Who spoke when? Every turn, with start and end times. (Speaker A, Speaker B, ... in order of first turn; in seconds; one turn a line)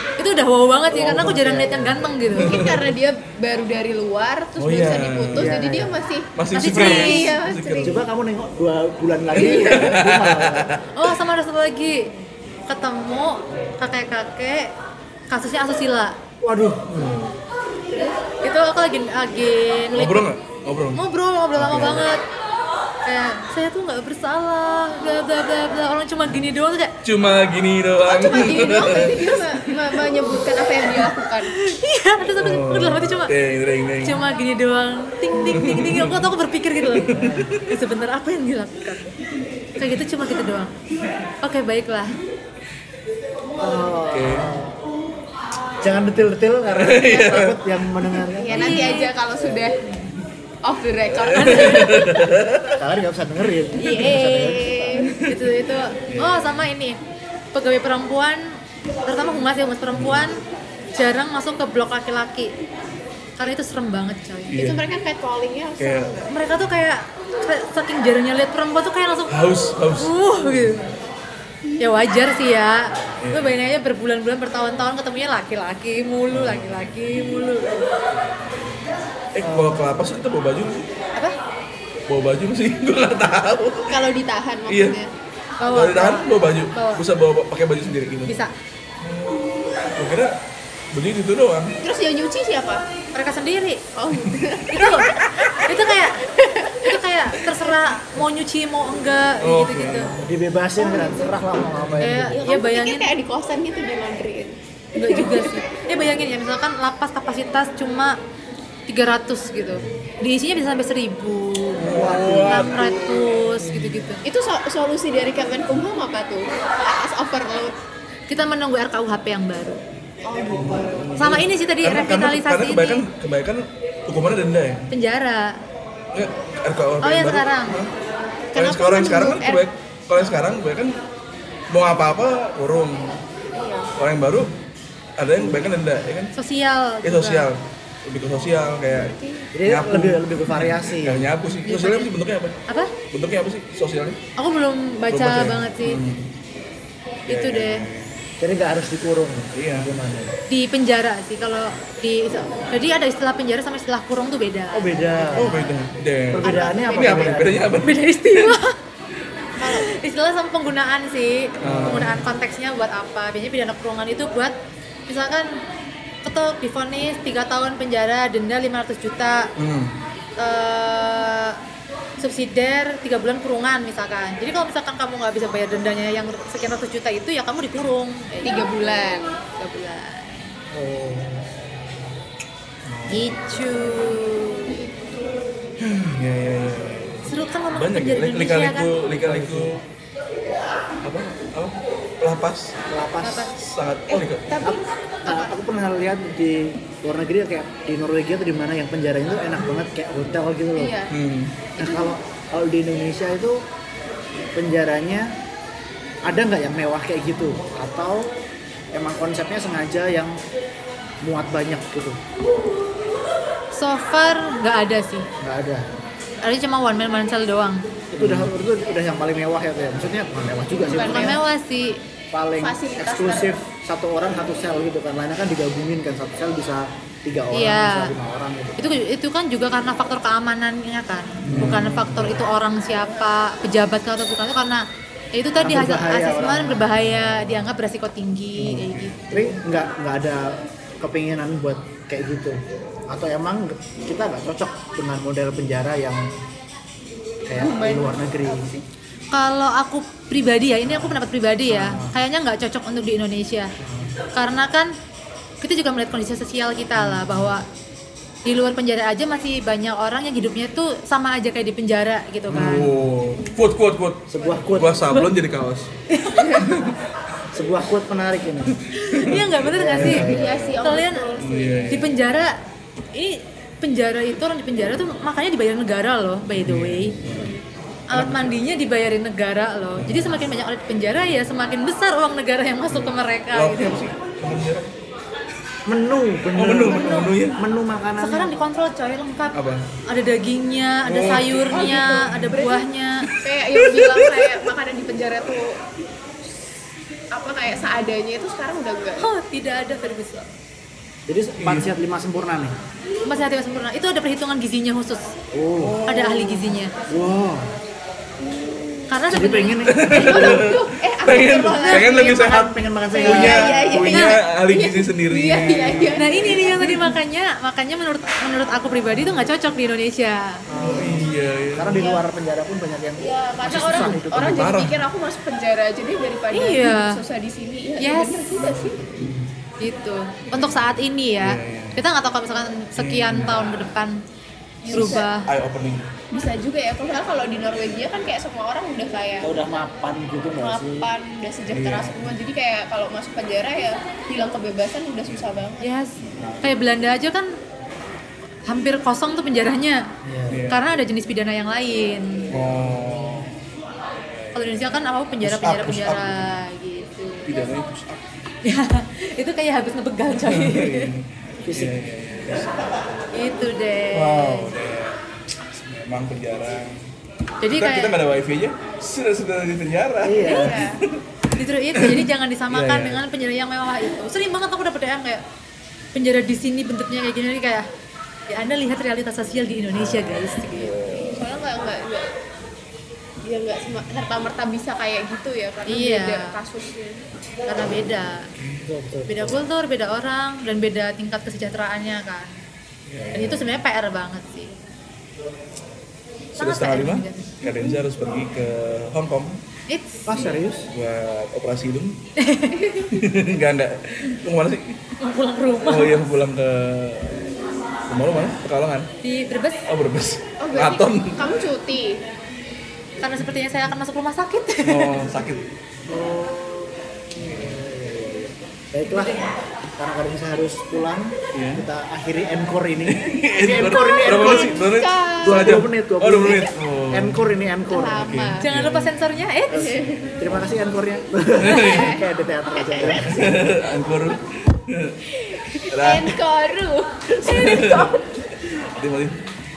Speaker A: 0.2-2.7
Speaker B: 0.9-2.1
Speaker C: 2.4-2.8
Speaker D: 2.4-8.0
Speaker C: 4.6-5.5
Speaker B: 5.3-6.0
Speaker C: 6.4-8.0
Speaker A: 6.5-7.2
Speaker B: 7.8-10.8
Speaker C: 9.4-11.1
Speaker D: 9.4-9.8
Speaker A: 11.0-12.1
Speaker A: 12.7-14.7
Speaker A: 15.3-16.1
Speaker B: 16.4-17.0
Speaker C: 16.9-17.4
Speaker A: 18.3-20.3
Speaker C: 19.9-21.0
Speaker A: 20.9-22.2
Speaker C: 21.6-22.1
Speaker A: 23.1-26.9
Speaker C: 27.0-29.3
Speaker D: 28.1-31.6
Speaker A: 31.5-33.3
Speaker C: 32.4-34.2
Speaker A: 34.0-39.1
Speaker C: 35.4-36.3
Speaker C: 36.9-37.6
Speaker B: 37.1-37.5
Speaker A: 39.8-40.7
Speaker A: 41.4-42.1
Speaker B: 43.6-44.8
Speaker C: 44.1-44.5
Speaker B: 45.8-49.6
Speaker C: 46.8-48.2
Speaker D: 48.4-49.8
Speaker A: 48.5-49.1
Speaker D: 50.6-52.3
Speaker C: 51.2-52.8
Speaker A: 51.4-52.0
Speaker B: 52.8-55.0
Speaker D: 53.8-55.1
Speaker A: 55.2-57.0
Speaker C: 56.1-56.7
Speaker A: 57.5-60.4
Speaker C: 60.0-60.2
Speaker A: 61.0-62.5
Speaker A: 63.4-64.6
Speaker C: 64.5-64.8
Speaker D: 64.6-66.3
Speaker C: 65.8-66.8
Speaker A: 66.3-69.3
Speaker C: 69.3-71.0
Speaker A: 70.0-70.9
Speaker A: 71.8-77.8
Speaker C: 73.2-73.6
Speaker C: 76.3-77.5
Speaker C: 78.1-80.9
Speaker B: 79.4-80.1
Speaker C: 82.1-84.0
Speaker D: 83.9-85.1
Speaker C: 84.7-85.0
Speaker A: 85.6-87.0
Speaker C: 85.7-88.4
Speaker A: 88.2-88.5
Speaker C: 89.0-90.3
Speaker C: 90.9-91.8
Speaker D: 91.8-92.9
Speaker A: 93.1-93.8
Speaker D: 94.0-95.1
Speaker A: 94.7-96.2
Speaker D: 96.4-96.8
Speaker A: 96.8-100.1
Speaker D: 97.3-97.6
Speaker C: 99.4-100.2
Speaker B: 100.2-102.4
Speaker D: 100.8-101.3
Speaker A: 102.0-103.1
Speaker D: 102.3-105.6
Speaker A: 105.0-108.1
Speaker A: 108.9-114.2
Speaker B: 109.7-110.0
Speaker B: 111.8-112.8
Speaker C: 111.8-113.9
Speaker D: 114.2-117.8
Speaker A: 118.3-119.8
Speaker D: 120.2-121.1
Speaker C: 120.5-124.9
Speaker A: 121.2-123.0
Speaker A: 124.9-125.6
Speaker C: 126.1-127.9
Speaker A: 127.0-127.8
Speaker A: 128.5-129.6
Speaker C: 128.6-131.0
Speaker C: 131.7-133.2
Speaker D: 133.5-133.9
Speaker C: 134.0-134.5
Speaker C: 135.2-136.3
Speaker A: 136.3-137.5
Speaker C: 137.0-142.6
Speaker D: 138.9-139.5
Speaker B: 139.6-141.3
Speaker A: 141.6-142.1
Speaker A: 142.7-142.9
Speaker C: 143.1-144.2
Speaker A: 144.4-146.0
Speaker C: 145.1-146.3
Speaker A: 147.3-147.9
Speaker C: 147.3-148.1
Speaker B: 148.4-150.3
Speaker C: 149.6-149.9
Speaker A: 150.5-155.2
Speaker B: 154.7-155.6
Speaker C: 155.3-158.5
Speaker B: 156.3-157.8
Speaker D: 156.4-157.5
Speaker A: 157.8-158.8
Speaker A: 159.6-164.5
Speaker B: 161.6-162.2
Speaker C: 161.6-162.2
Speaker A: 165.1-165.5
Speaker A: 166.2-169.5
Speaker C: 169.6-170.0
Speaker A: 170.4-171.6
Speaker A: 172.2-178.7
Speaker D: 178.4-179.4
Speaker A: 179.6-180.4
Speaker B: 180.7-181.4
Speaker C: 182.8-183.9
Speaker A: 183.1-184.7
Speaker C: 185.8-189.8
Speaker A: 187.3-188.9
Speaker B: 189.2-189.7
Speaker C: 191.0-192.8
Speaker B: 192.9-193.5
Speaker A: 193.2-193.6
Speaker C: 193.6-194.5
Speaker D: 194.1-195.6
Speaker B: 194.6-200.9
Speaker D: 200.8-201.2
Speaker C: 201.1-201.7
Speaker D: 201.8-202.1
Speaker B: 201.8-203.6
Speaker B: 204.4-205.3
Speaker B: 206.2-208.3
Speaker B: 208.9-210.4
Speaker B: 211.2-212.2
Speaker A: 213.7-215.3
Speaker B: 215.4-215.9
Speaker A: 216.4-217.8
Speaker B: 218.1-221.4
Speaker C: 218.2-218.5
Speaker D: 220.7-221.4
Speaker A: 221.0-222.0
Speaker B: 222.3-229.0
Speaker D: 222.6-223.6
Speaker A: 227.5-228.1
Speaker A: 228.8-239.6
Speaker B: 231.4-232.4
Speaker C: 231.5-232.3
Speaker D: 232.9-233.3
Speaker B: 235.6-237.7
Speaker C: 238.6-239.2
Speaker B: 239.3-242.6
Speaker B: 243.1-246.3
Speaker B: 247.5-248.7
Speaker D: 247.5-248.8
Speaker A: 249.3-253.7
Speaker B: 250.8-252.2
Speaker B: 253.8-254.1
Speaker A: 254.3-254.9
Speaker A: 255.6-257.6
Speaker B: 256.9-257.6
Speaker A: 258.5-263.0
Speaker C: 262.5-265.9
Speaker B: 262.5-263.0
Speaker B: 264.3-265.0
Speaker A: 266.1-266.7
Speaker D: 266.4-266.8
Speaker C: 266.7-266.9
Speaker B: 267.5-268.8
Speaker A: 268.9-270.3
Speaker C: 269.1-270.9
Speaker B: 269.6-270.5
Speaker D: 270.2-272.1
Speaker A: 270.8-271.3
Speaker C: 271.4-272.0
Speaker A: 271.9-272.5
Speaker A: 273.1-277.2
Speaker C: 276.6-277.6
Speaker A: 278.1-284.0
Speaker C: 278.1-278.6
Speaker C: 280.0-280.4
Speaker C: 282.9-284.9
Speaker B: 285.9-288.7
Speaker C: 286.6-287.6
Speaker A: 286.8-287.4
Speaker A: 288.2-293.3
Speaker C: 289.5-289.9
Speaker C: 291.1-291.7
Speaker D: 291.6-292.8
Speaker D: 293.4-295.8
Speaker C: 293.9-294.4
Speaker D: 297.3-299.3
Speaker A: 299.2-300.5
Speaker B: 301.2-302.8
Speaker C: 301.6-301.9
Speaker A: 303.2-305.3
Speaker B: 305.5-306.0
Speaker A: 306.1-306.9
Speaker B: 307.1-307.7
Speaker D: 308.4-309.2
Speaker A: 309.1-309.8
Speaker B: 309.3-310.1
Speaker C: 309.9-316.7
Speaker D: 310.1-317.1
Speaker A: 311.7-312.1
Speaker B: 312.3-313.7
Speaker A: 314.1-314.4
Speaker A: 316.1-320.6
Speaker B: 320.7-324.8
Speaker C: 320.8-322.1
Speaker D: 322.0-322.2
Speaker D: 323.2-329.0
Speaker C: 323.7-325.0
Speaker A: 326.5-327.2
Speaker A: 328.0-328.4
Speaker C: 328.6-329.4
Speaker A: 329.8-334.2
Speaker C: 330.4-332.0
Speaker C: 333.0-333.8
Speaker D: 334.8-335.3
Speaker A: 334.9-335.5
Speaker C: 335.4-336.1
Speaker D: 336.3-339.7
Speaker B: 339.4-341.1
Speaker D: 340.6-345.9
Speaker C: 341.7-342.4
Speaker C: 345.3-345.6
Speaker A: 345.8-347.5
Speaker C: 346.2-346.7
Speaker A: 348.7-350.0
Speaker B: 350.2-350.7
Speaker C: 350.5-350.9
Speaker A: 350.7-352.5
Speaker C: 352.5-353.5
Speaker B: 352.6-353.4
Speaker C: 354.2-356.5
Speaker A: 354.5-357.5
Speaker C: 357.5-358.2
Speaker A: 358.6-361.1
Speaker C: 360.4-362.9
Speaker B: 361.7-361.9
Speaker A: 363.3-364.7
Speaker C: 364.1-365.2
Speaker C: 365.7-367.0
Speaker A: 367.6-368.2
Speaker C: 367.6-373.2
Speaker B: 370.2-370.8
Speaker D: 370.4-371.0
Speaker A: 371.5-375.4
Speaker A: 376.1-377.9
Speaker A: 378.5-381.0
Speaker C: 380.0-381.3
Speaker D: 381.1-382.3
Speaker D: 383.4-387.2
Speaker A: 385.9-386.4
Speaker A: 387.6-388.4
Speaker B: 388.6-389.7
Speaker A: 389.3-392.5
Speaker C: 393.1-393.8
Speaker A: 393.3-394.8
Speaker C: 396.5-399.6
Speaker A: 396.6-397.5
Speaker A: 399.9-400.4
Speaker B: 400.3-400.9
Speaker C: 400.5-402.2
Speaker A: 402.4-403.0
Speaker D: 402.7-403.1
Speaker C: 403.1-405.0
Speaker A: 405.2-406.2
Speaker C: 405.9-407.4
Speaker C: 408.1-409.1
Speaker A: 409.2-409.9
Speaker C: 409.9-411.4
Speaker D: 410.6-412.2
Speaker A: 413.2-415.1
Speaker C: 414.8-415.7
Speaker B: 416.1-419.4
Speaker C: 417.4-417.9
Speaker B: 420.0-424.8
Speaker C: 421.5-421.9
Speaker C: 423.1-427.5
Speaker D: 423.9-425.8
Speaker B: 425.4-428.2
Speaker D: 427.9-428.7
Speaker C: 428.1-429.3
Speaker A: 428.6-429.9
Speaker B: 429.7-433.5
Speaker D: 429.7-430.3
Speaker C: 430.0-430.4
Speaker C: 431.6-432.1
Speaker D: 431.8-433.2
Speaker C: 433.0-435.2
Speaker D: 435.4-438.3
Speaker C: 435.9-436.4
Speaker C: 437.4-438.1
Speaker C: 438.7-439.4